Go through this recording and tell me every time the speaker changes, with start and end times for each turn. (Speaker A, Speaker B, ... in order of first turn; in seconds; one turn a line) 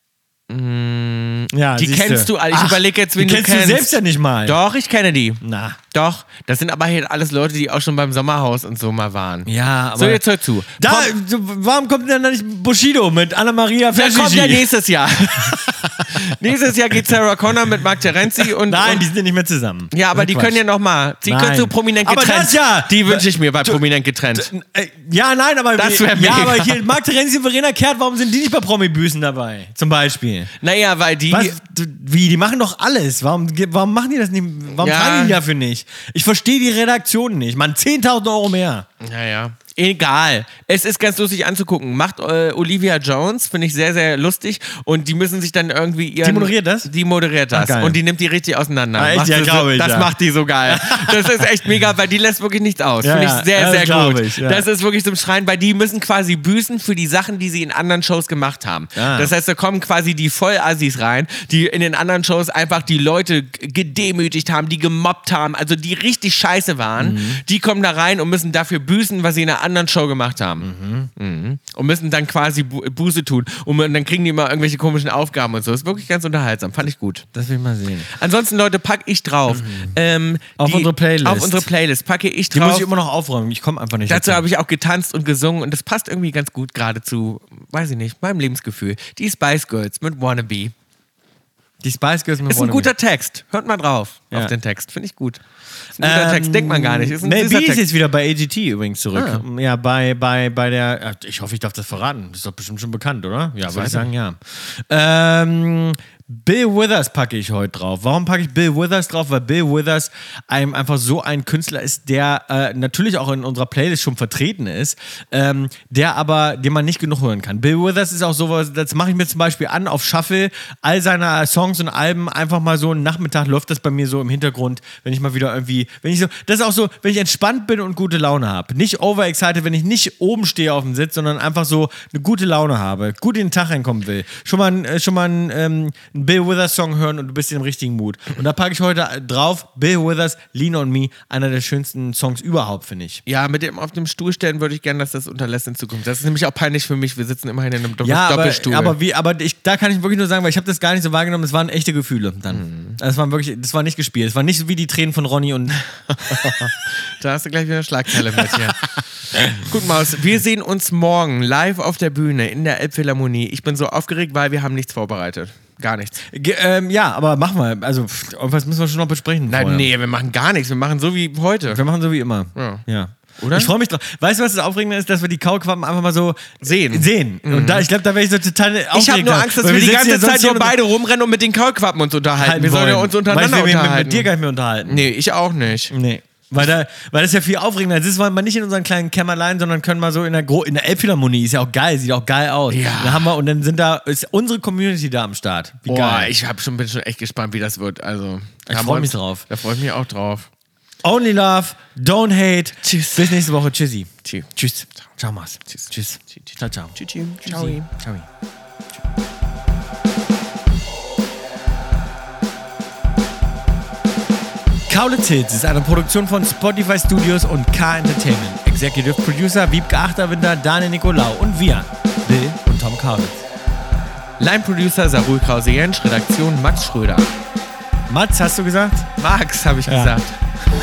Speaker A: 0.5-11.1
Speaker B: 1.5-4.6
Speaker B: 5.4-5.8
Speaker B: 9.4-10.2
Speaker B: 10.8-14.7
Speaker A: 13.9-19.0
Speaker B: 15.3-16.3
Speaker B: 18.4-20.6
Speaker A: 19.9-24.5
Speaker B: 21.2-23.8
Speaker B: 24.3-30.5
Speaker A: 25.8-26.8
Speaker A: 30.6-31.6
Speaker B: 31.3-38.9
Speaker A: 34.8-35.4
Speaker A: 39.0-77.3
Speaker B: 46.2-46.9
Speaker B: 47.5-48.0
Speaker B: 49.0-50.1
Speaker B: 50.7-51.4
Speaker B: 53.0-54.6
Speaker B: 59.0-59.3
Speaker B: 67.0-67.4
Speaker B: 70.6-71.1
Speaker B: 77.3-78.1
Speaker A: 78.1-82.9
Speaker B: 79.5-79.9
Speaker B: 80.6-81.7
Speaker B: 82.5-84.4
Speaker A: 84.1-90.7
Speaker B: 91.8-92.9
Speaker A: 92.5-95.4
Speaker A: 96.0-97.8
Speaker B: 96.0-143.2
Speaker A: 99.1-99.4
Speaker A: 103.7-104.1
Speaker A: 143.2-148.9
Speaker B: 148.0-156.7
Speaker A: 152.5-153.0
Speaker A: 156.3-166.2
Speaker B: 158.4-158.7
Speaker B: 166.3-169.9
Speaker A: 169.5-171.8
Speaker B: 171.7-180.8
Speaker A: 172.5-172.8
Speaker A: 173.4-173.7
Speaker A: 176.6-177.8
Speaker A: 178.9-184.3
Speaker B: 182.4-185.1
Speaker A: 184.9-185.9
Speaker B: 185.9-196.3
Speaker A: 192.7-193.3
Speaker A: 195.8-200.5
Speaker B: 198.7-199.4
Speaker B: 201.0-208.3
Speaker A: 202.8-203.5
Speaker A: 205.7-207.9
Speaker B: 214.9-223.4
Speaker A: 224.4-227.3
Speaker B: 228.1-229.1
Speaker A: 229.2-230.4
Speaker B: 229.9-230.2